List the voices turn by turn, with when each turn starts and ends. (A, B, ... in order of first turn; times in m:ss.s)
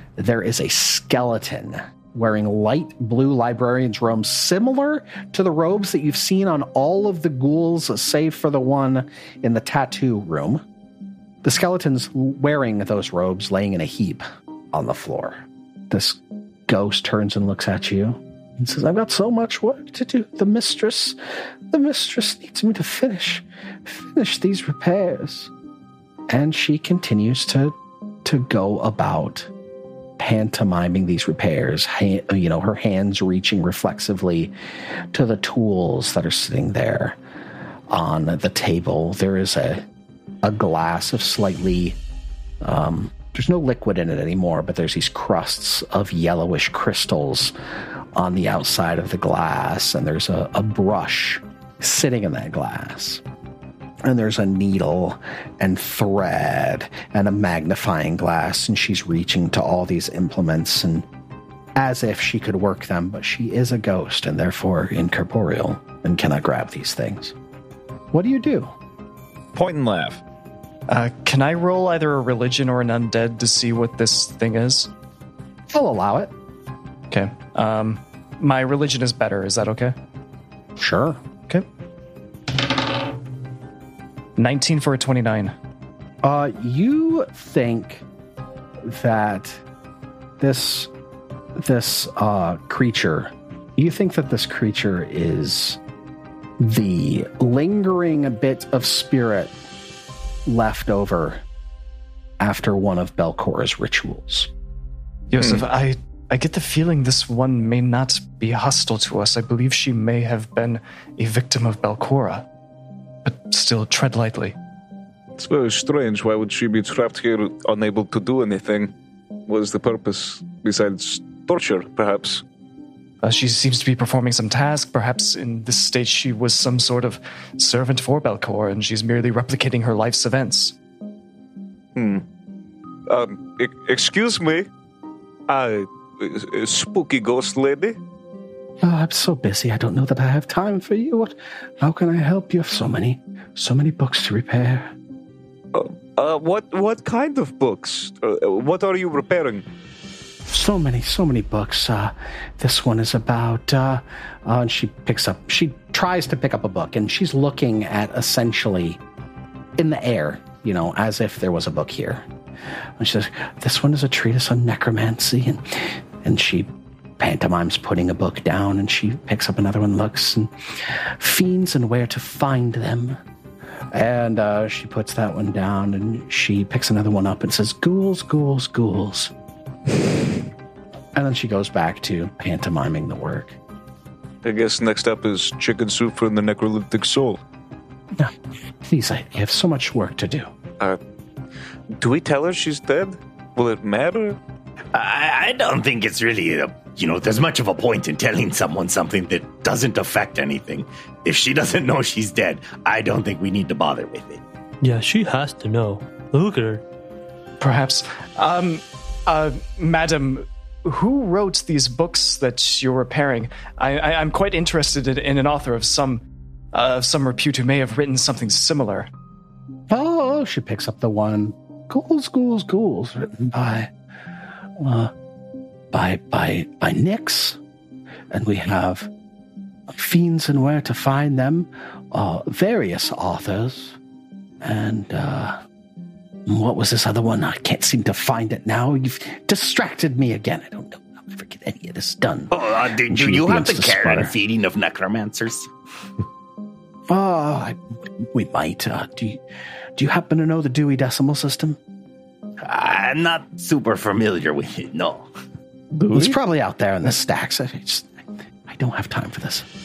0:00.2-0:10.6 A
0:11.4-0:21.2 A
0:21.7-0:25.5 A
0:26.3-0:29.5 A
0:30.2-0:34.5 A
0:35.1-0:37.2 A
0:37.9-0:39.8 A
0:40.4-0:42.0 A
0:42.6-0:47.5 A
0:48.1-0:53.2 A
0:54.0-1:01.0 A
1:01.8-1:07.4 A
1:08.1-1:08.7 A
1:09.5-1:10.2 B
1:10.9-1:14.9 C
1:15.7-1:16.3 A
1:17.1-1:19.9 C
1:20.8-1:21.2 A
1:24.4-1:25.5 C
1:26.2-1:28.0 A
1:28.8-1:29.6 A
1:30.4-1:30.9 A
1:31.6-1:35.8 A
1:36.6-1:39.5 A
1:40.4-1:41.4 A
1:42.4-1:44.5 A
1:45.3-1:52.4 C
1:45.4-1:45.6 B
1:53.2-1:54.5 C
1:55.4-1:58.9 B
1:59.5-2:02.4 B
2:03.2-2:10.8 C
2:12.0-2:12.2 B
2:13.1-2:14.7 B
2:15.5-2:18.0 B
2:18.8-2:24.9 A
2:25.7-2:29.6 B
2:30.5-2:39.0 A
2:39.8-2:42.2 A
2:43.0-2:53.2 A
2:53.9-2:59.3 A
3:01.1-3:03.6 A
3:04.4-3:07.4 B
3:08.8-3:10.5 A
3:12.0-3:14.4 B
3:14.9-3:24.4 D
3:24.8-3:26.8 E
3:27.6-3:39.1 C
3:39.9-3:43.9 A
3:44.8-3:45.1 A
3:45.9-3:47.6 A
3:48.3-3:49.1 A
3:49.9-3:54.0 A
3:54.6-3:55.6 A
3:56.5-4:04.3 A
4:02.5-4:05.7 D
4:07.1-4:09.4 A
4:10.0-4:11.8 A
4:12.6-4:15.2 D
4:15.9-4:16.3 B
4:16.1-4:18.1 A
4:18.7-4:19.6 A